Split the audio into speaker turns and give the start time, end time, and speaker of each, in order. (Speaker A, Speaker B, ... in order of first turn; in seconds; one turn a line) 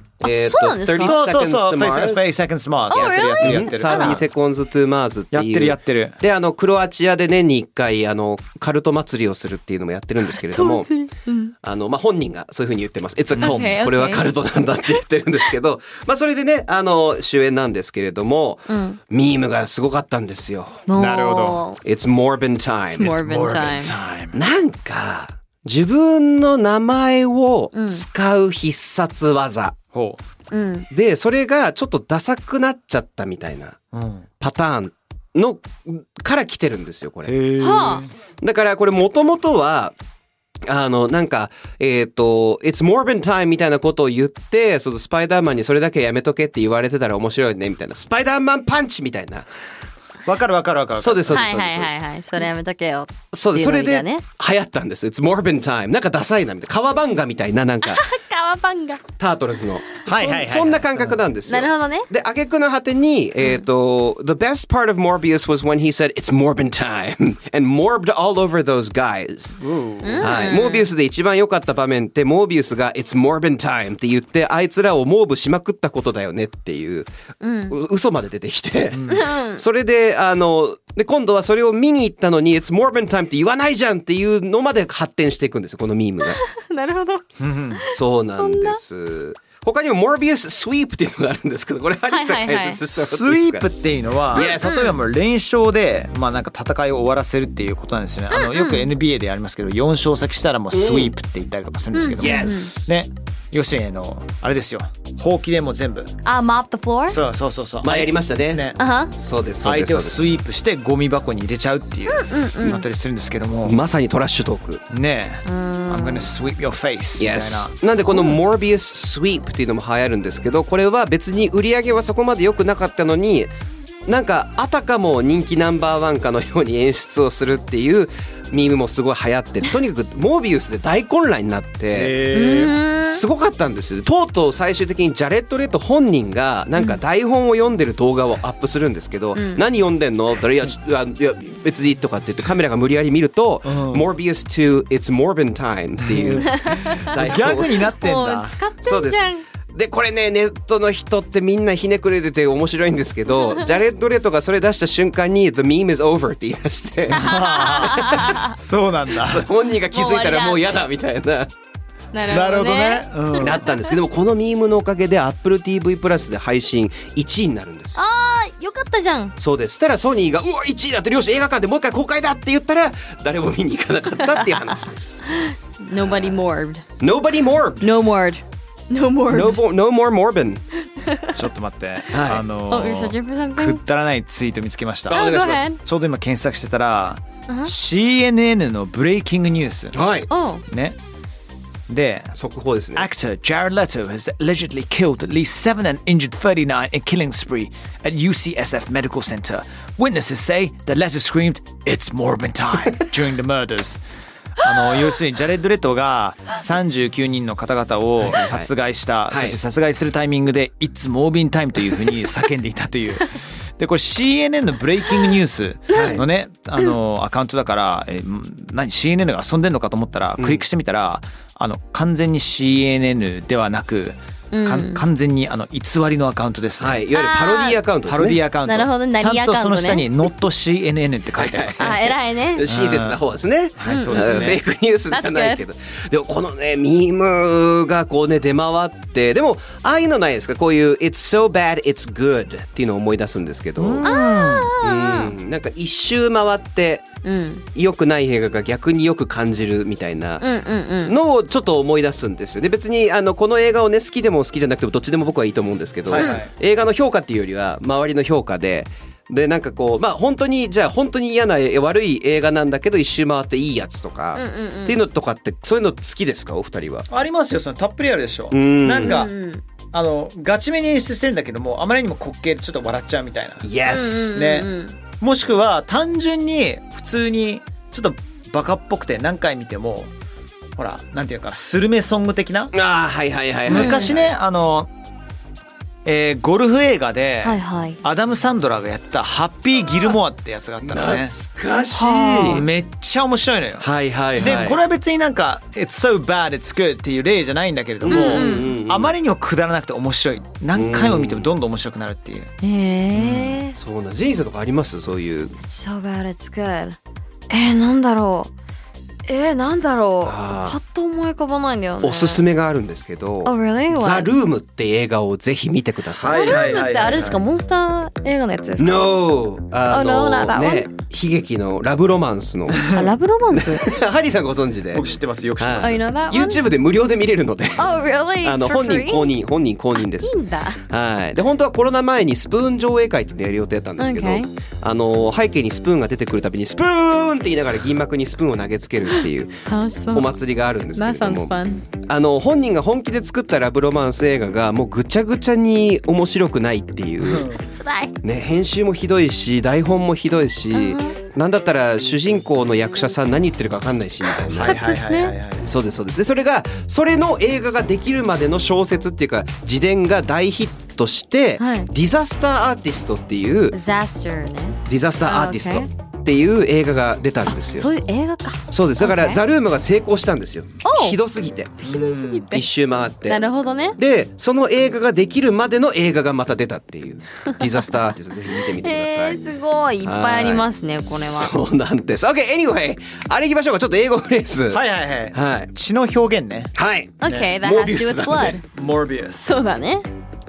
Speaker A: 0.2-2.3
Speaker B: 0.2-1.2
Speaker C: 1.0-4.2
Speaker B: 2.9-4.2
Speaker A: 2.9-10.9
Speaker C: 5.3-6.2
Speaker B: 10.3-11.5
Speaker A: 11.6-20.8
Speaker C: 13.3-13.7
Speaker B: 13.4-14.3
Speaker B: 18.7-19.0
Speaker B: 20.9-21.8
Speaker C: 20.9-21.6
Speaker A: 21.8-23.2
Speaker B: 22.9-23.9
Speaker C: 23.0-24.4
Speaker A: 24.3-29.8
Speaker B: 27.7-28.0
Speaker C: 29.9-30.2
Speaker B: 30.5-30.9
Speaker A: 30.9-33.8
Speaker C: 33.9-34.3
Speaker A: 34.4-37.3
Speaker C: 37.2-38.1
Speaker B: 37.6-38.0
Speaker A: 38.4-39.9
Speaker A: 40.6-49.5
Speaker C: 50.2-51.5
Speaker A: 51.0-52.0
Speaker B: 51.3-54.2
Speaker A: 53.3-58.1
Speaker B: 57.8-59.0
Speaker A: 59.2-69.6
Speaker C: 60.0-61.2
Speaker B: 61.5-62.1
Speaker C: 69.6-70.5
Speaker B: 70.0-70.8
Speaker A: 70.2-77.1
Speaker B: 77.4-77.7
Speaker A: 77.7-86.4
Speaker C: 78.9-79.2
Speaker B: 79.1-79.6
Speaker B: 86.4-87.2
Speaker C: 87.4-87.8
Speaker B: 87.7-88.8
Speaker A: 87.9-93.7
Speaker B: 92.1-92.8
Speaker C: 92.9-106.1
Speaker A: 94.3-95.0
Speaker B: 94.3-94.9
Speaker B: 98.3-98.9
Speaker A: 100.7-101.1
Speaker B: 101.9-102.7
Speaker A: 102.2-102.9
Speaker B: 106.2-107.2
Speaker C: 107.1-108.8
Speaker A: 107.8-110.2
Speaker B: 108.8-109.1
Speaker C: 109.6-113.8
Speaker B: 112.1-112.8
Speaker A: 113.6-114.8
Speaker C: 114.9-117.7
Speaker B: 115.4-116.3
Speaker A: 117.2-123.5
Speaker A: 124.1-132.2
Speaker C: 131.9-132.7
Speaker B: 132.3-133.2
Speaker A: 133.1-147.8
Speaker B: 139.3-139.6
Speaker C: 143.6-144.1
Speaker C: 146.0-148.5
Speaker B: 146.4-147.2
Speaker B: 147.8-149.4
Speaker A: 148.8-157.3
Speaker C: 157.1-159.5
Speaker B: 157.1-158.5
Speaker A: 159.2-161.5
Speaker B: 159.9-160.8
Speaker B: 162.1-163.8
Speaker C: 162.3-163.7
Speaker A: 163.4-168.0
Speaker B: 167.9-169.3
Speaker A: 169.4-175.2
Speaker B: 175.3-176.8
Speaker A: 175.9-176.4
Speaker A: 177.0-177.9
Speaker B: 177.8-179.6
Speaker A: 179.3-180.6
Speaker B: 181.0-181.3
Speaker C: 181.3-190.0
Speaker A: 182.1-182.4
Speaker B: 182.7-183.8
Speaker A: 185.1-185.7
Speaker B: 185.1-185.8
Speaker A: 189.9-190.3
Speaker B: 190.3-190.6
Speaker C: 190.7-191.0
Speaker C: 191.9-192.3
Speaker A: 192.4-193.1
Speaker C: 192.9-204.0
Speaker C: 204.6-227.0
Speaker A: 208.2-208.7
Speaker A: 209.3-209.6
Speaker A: 215.9-216.2
Speaker B: 215.9-216.2
Speaker A: 220.4-220.6
Speaker B: 224.5-225.0
Speaker A: 226.8-228.4
Speaker B: 227.1-227.8
Speaker C: 228.1-232.0
Speaker B: 228.7-230.1
Speaker A: 231.3-244.1
Speaker B: 231.8-232.7
Speaker C: 232.7-233.2
Speaker C: 233.8-234.6
Speaker B: 233.9-234.5
Speaker B: 235.1-235.6
Speaker C: 243.8-244.7
Speaker B: 244.0-245.3
Speaker A: 244.8-247.0
Speaker B: 247.2-247.6
Speaker A: 247.7-250.4
Speaker B: 250.4-251.1
Speaker A: 251.0-267.1
Speaker C: 256.1-256.5
Speaker B: 256.1-256.4
Speaker B: 264.4-265.0
Speaker C: 267.1-269.3
Speaker A: 268.5-269.2
Speaker B: 269.0-269.6
Speaker C: 269.9-274.7
Speaker A: 273.6-274.4
Speaker B: 273.8-274.9
Speaker C: 275.2-280.1
Speaker C: 280.8-282.7
Speaker A: 282.7-284.3
Speaker C: 283.7-284.9
Speaker B: 283.7-284.1
Speaker C: 286.0-291.3
Speaker B: 287.4-288.0
Speaker A: 290.8-292.6
Speaker B: 291.9-292.6
Speaker C: 291.9-302.5
Speaker A: 293.8-294.8
Speaker A: 298.0-299.1
Speaker B: 298.1-298.7
Speaker A: 300.7-301.5
Speaker B: 302.6-303.7
Speaker A: 303.1-305.6
Speaker B: 305.6-307.0
Speaker B: 307.5-308.5
Speaker B: 309.2-312.4
Speaker A: 310.2-310.8
Speaker A: 312.0-316.9
Speaker B: 313.4-314.3
Speaker C: 316.2-317.4
Speaker B: 316.3-319.1
Speaker A: 318.8-322.9
Speaker B: 319.9-320.9
Speaker B: 322.9-323.9
Speaker A: 323.5-330.3
Speaker C: 324.9-326.0
Speaker B: 325.8-326.6
Speaker B: 327.8-329.3
Speaker B: 330.2-330.8
Speaker A: 330.9-339.6
Speaker B: 334.0-334.5
Speaker B: 339.7-340.3
Speaker A: 340.1-347.5
Speaker B: 340.9-341.8
Speaker C: 347.2-347.6
Speaker B: 347.7-348.1
Speaker A: 348.2-354.8
Speaker B: 350.7-351.2
Speaker C: 354.5-355.7
Speaker B: 354.6-355.3
Speaker A: 355.6-363.8
Speaker B: 361.6-361.9
Speaker B: 363.7-365.9
Speaker A: 364.9-367.9
Speaker B: 367.5-369.4
Speaker A: 368.7-371.8
Speaker B: 370.8-371.2
Speaker C: 371.8-372.5
Speaker B: 371.8-372.6
Speaker A: 372.5-373.4
Speaker B: 373.2-374.0
Speaker A: 373.9-379.4
Speaker B: 378.8-381.5
Speaker A: 380.0-385.7
Speaker C: 384.7-387.5
Speaker A: 386.8-388.6
Speaker B: 387.2-388.6
Speaker C: 388.6-389.6
Speaker B: 389.4-390.1